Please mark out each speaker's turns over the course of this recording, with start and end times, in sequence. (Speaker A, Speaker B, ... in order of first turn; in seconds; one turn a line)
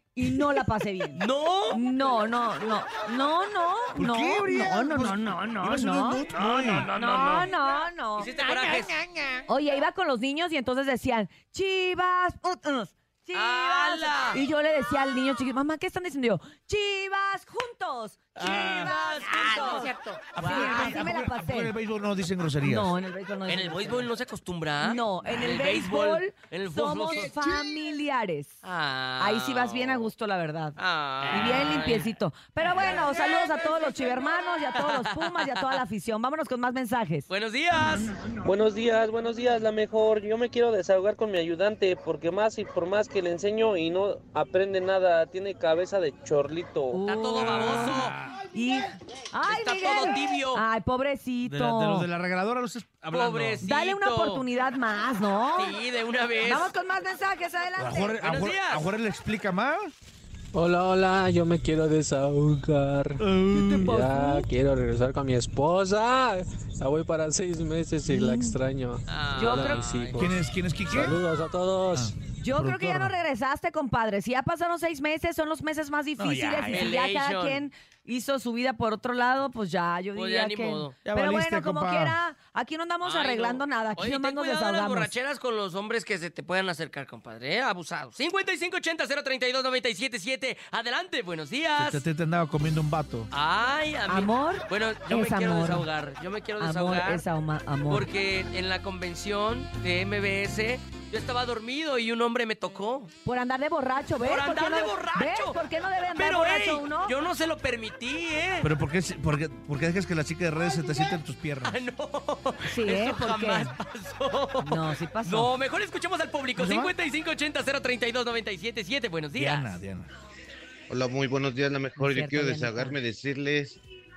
Speaker A: 0.1-6.2
Speaker B: 1.1-1.8
Speaker C: 4.0-6.9
Speaker B: 6.3-7.5
Speaker A: 7.0-8.3
Speaker B: 8.2-8.9
Speaker A: 9.5-18.2
Speaker B: 13.3-14.4
Speaker B: 18.4-20.9
Speaker C: 18.4-18.9
Speaker A: 19.2-21.7
Speaker C: 20.3-22.9
Speaker A: 22.6-24.1
Speaker B: 23.5-27.4
Speaker A: 24.8-28.6
Speaker B: 28.6-30.1
Speaker A: 29.2-30.8
Speaker B: 30.8-32.1
Speaker A: 31.3-37.3
Speaker B: 34.8-35.7
Speaker B: 37.3-38.2
Speaker D: 38.5-46.9
Speaker A: 46.9-52.1
Speaker B: 47.0-48.2
Speaker C: 47.5-48.4
Speaker B: 49.5-50.6
Speaker C: 51.4-53.7
Speaker B: 53.1-54.5
Speaker A: 53.6-55.8
Speaker B: 55.6-56.7
Speaker A: 56.4-58.2
Speaker C: 57.8-59.9
Speaker B: 58.2-58.9
Speaker E: 60.5-72.1
Speaker C: 63.2-64.0
Speaker A: 63.5-64.5
Speaker A: 68.1-68.6
Speaker B: 69.1-70.3
Speaker A: 69.4-69.9
Speaker C: 70.2-71.2
Speaker C: 71.9-73.2
Speaker A: 72.4-85.1
Speaker C: 76.2-77.0
Speaker B: 76.7-77.7
Speaker B: 80.2-81.0
Speaker C: 81.0-82.2
Speaker B: 83.0-92.0
Speaker C: 91.8-93.3
Speaker B: 93.3-97.2
Speaker A: 94.1-95.9
Speaker A: 96.6-98.1
Speaker B: 97.9-103.1
Speaker A: 103.2-107.2
Speaker B: 104.2-108.7
Speaker C: 108.6-111.8
Speaker B: 111.6-119.7
Speaker A: 112.6-113.7
Speaker A: 114.6-115.5
Speaker C: 116.5-117.0
Speaker C: 119.3-120.1
Speaker F: 120.9-123.8
Speaker A: 122.0-123.0